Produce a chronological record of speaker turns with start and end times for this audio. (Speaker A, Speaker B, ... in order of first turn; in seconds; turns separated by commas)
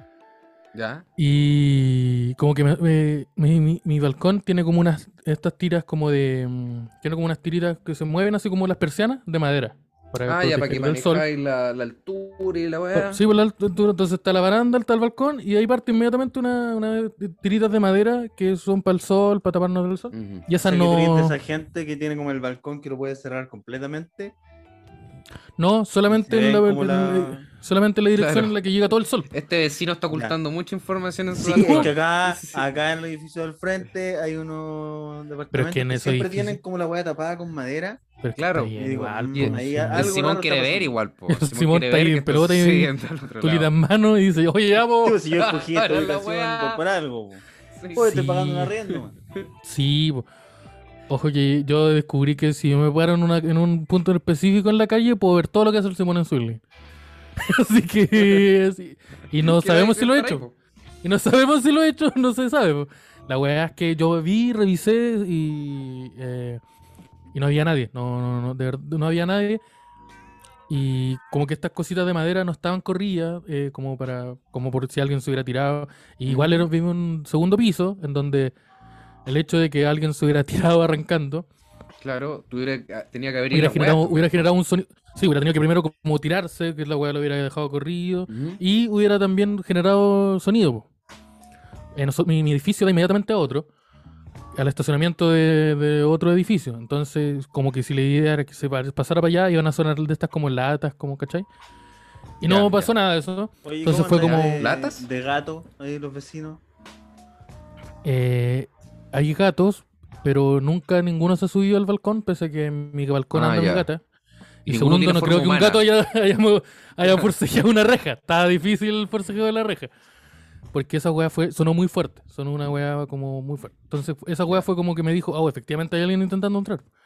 Speaker A: 0.7-1.1, Speaker B: 1.2-11.3, Speaker A: 10.3-13.2, Speaker B: 12.9-21.4, Speaker A: 20.1-20.5, Speaker C: 20.6-24.4, Speaker B: 25.6-29.3, Speaker C: 26.1-27.4, Speaker A: 28.1-28.6, Speaker A: 29.3-32.6, Speaker C: 31.4-38.0, Speaker B: 35.5-36.6, Speaker B: 38.2-40.1, Speaker A: 38.4-38.8, Speaker C: 38.8-40.9, Speaker A: 39.3-43.7, Speaker B: 41.3-45.2, Speaker C: 45.0-47.4, Speaker A: 45.3-46.8, Speaker A: 47.8-48.1, Speaker C: 48.0-49.1, Speaker B: 48.0-48.7, Speaker B: 49.6-50.2, Speaker B: 51.1-56.6, Speaker B: 57.4-60.4, Speaker A: 58.2-58.5, Speaker A: 59.4-60.5, Speaker B: 61.0-66.6, Speaker B: 67.3-69.6, Speaker B: 70.7-78.5, Speaker A: 76.3-76.7, Speaker B: 79.3-81.5, Speaker A: 82.0-84.5, Speaker B: 83.5-90.9, Speaker A: 88.3-88.6, Speaker B: 92.0-93.7, Speaker B: 94.5-101.5, Speaker B: 102.4-104.7, Speaker A: 102.5-102.9, Speaker C: 103.7-106.6, Speaker A: 104.2-105.0, Speaker B: 108.0-114.0, Speaker A: 113.3-113.9, Speaker B: 114.7-119.9, Speaker A: 114.7-115.8, Speaker A: 117.0-117.3, Speaker B: 120.7-126.8